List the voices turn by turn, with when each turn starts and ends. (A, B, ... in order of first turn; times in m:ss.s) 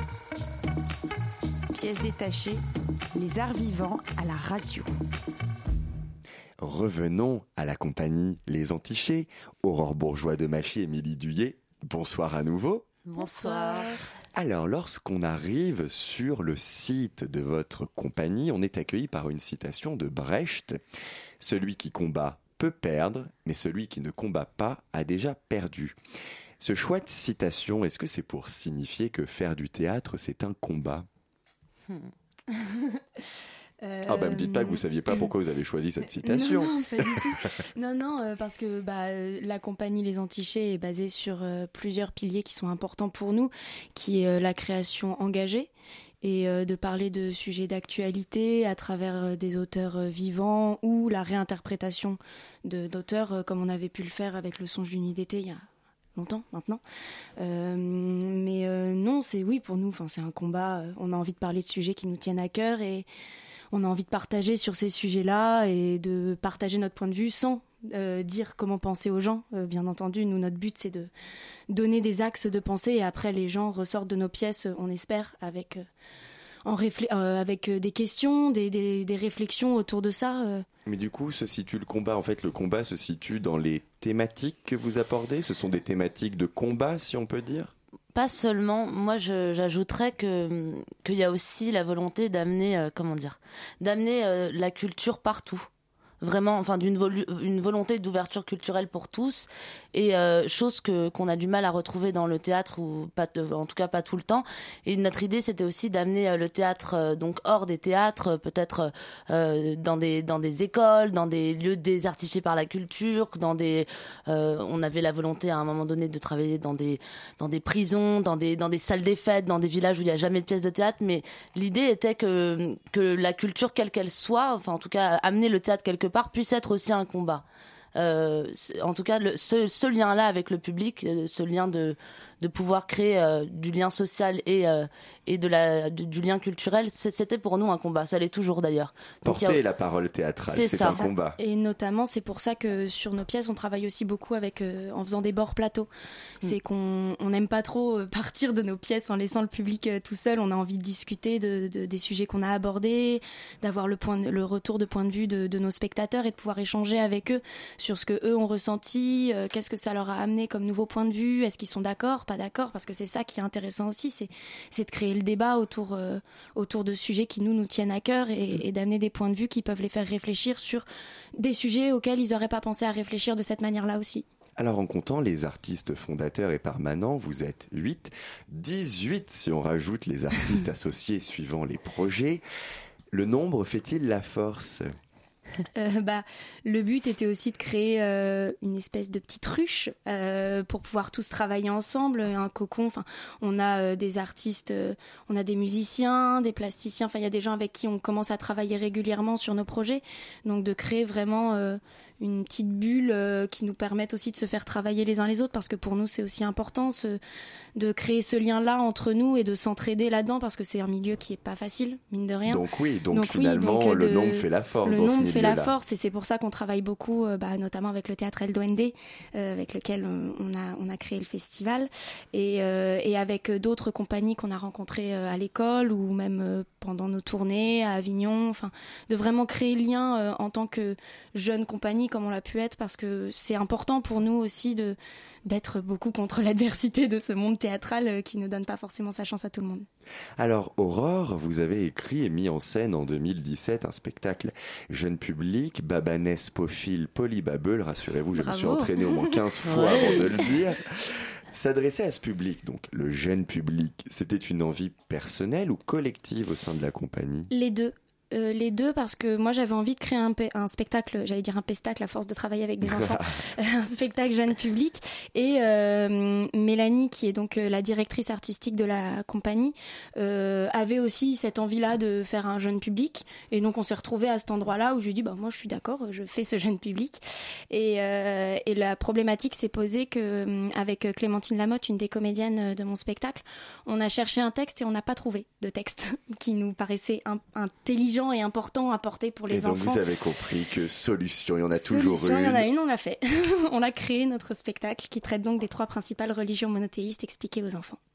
0:01.7-0:02.6 A
0:03.2-0:04.9 A
0:06.6-0:12.8 B
0:13.1-0:13.9 C
0:13.2-0:13.9 D
0:13.3-0:13.7 A
0:14.3-0:20.8 B
0:21.4-0:26.0 B
0:26.6-0:31.1 B
0:32.5-0:33.2 D
0:33.8-0:35.2 D
0:34.1-0:37.2 B
0:36.2-0:45.7 D
0:46.2-0:55.6 D
0:56.2-0:56.8 D
0:57.4-1:03.1 D
1:03.7-1:11.1 D
1:11.7-1:15.8 D
1:16.7-1:20.6 D
1:20.8-1:27.7 B
1:28.1-1:35.7 C
1:36.2-2:07.4 C
2:08.0-2:19.6 C
2:19.2-2:21.4 B
2:20.5-2:21.0 C
2:20.7-2:25.9 D
2:26.4-2:50.8 D
2:51.4-2:54.3 D
2:54.6-3:02.4 B
3:03.1-3:04.9 B
3:05.7-3:27.2 D
3:27.8-3:59.8 D
3:32.5-3:35.7 B
4:00.4-4:17.5 B
4:08.5-4:08.9 D
4:09.7-4:10.0 C
4:09.8-4:10.2 D
4:17.5-4:50.0 D
4:22.9-4:23.3 B
4:49.5-4:52.7 B
4:51.8-4:58.0 D